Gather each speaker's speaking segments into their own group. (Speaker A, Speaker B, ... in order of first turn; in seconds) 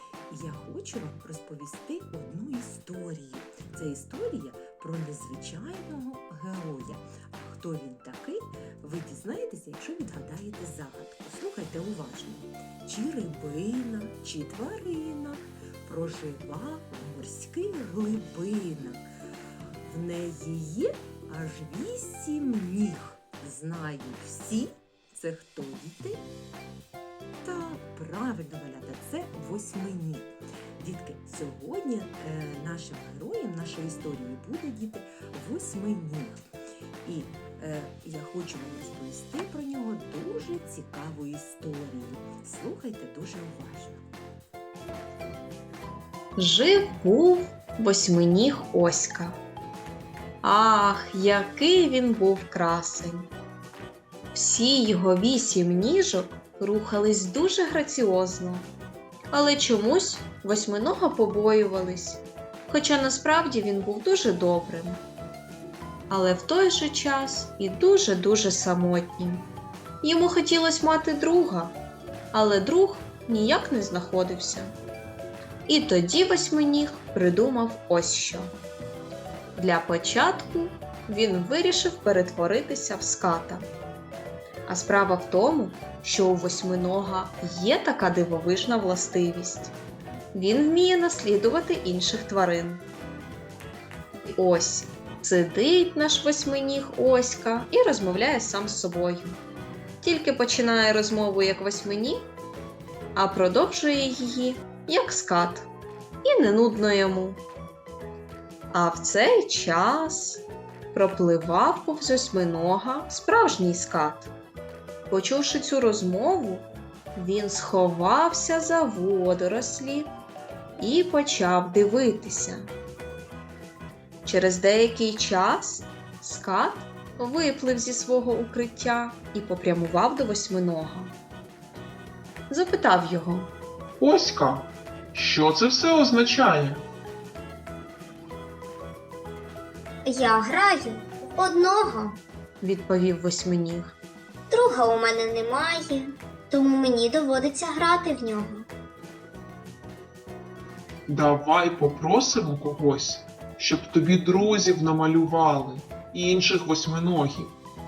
Speaker A: 0.3-19.0, 19.8-26.2, 27.4-36.4, 37.0-44.0
Speaker B: 46.4-49.4, 50.4-53.3, 54.3-58.7, 59.3-65.0, 66.1-69.4, 70.0-71.7, 72.3-74.7, 75.7-78.5, 79.5-83.7, 84.7-89.7, 90.3-92.8, 94.3-99.4, 100.0-102.3, 103.1-105.7, 106.2-107.4, 108.7-114.3, 115.1-120.1, 120.8-122.7, 124.2-131.1, 132.5-133.5, 142.6-143.9
Speaker C: 134.0-136.8, 151.1-157.6
Speaker D: 140.1-142.1, 144.5-146.0, 146.5-148.6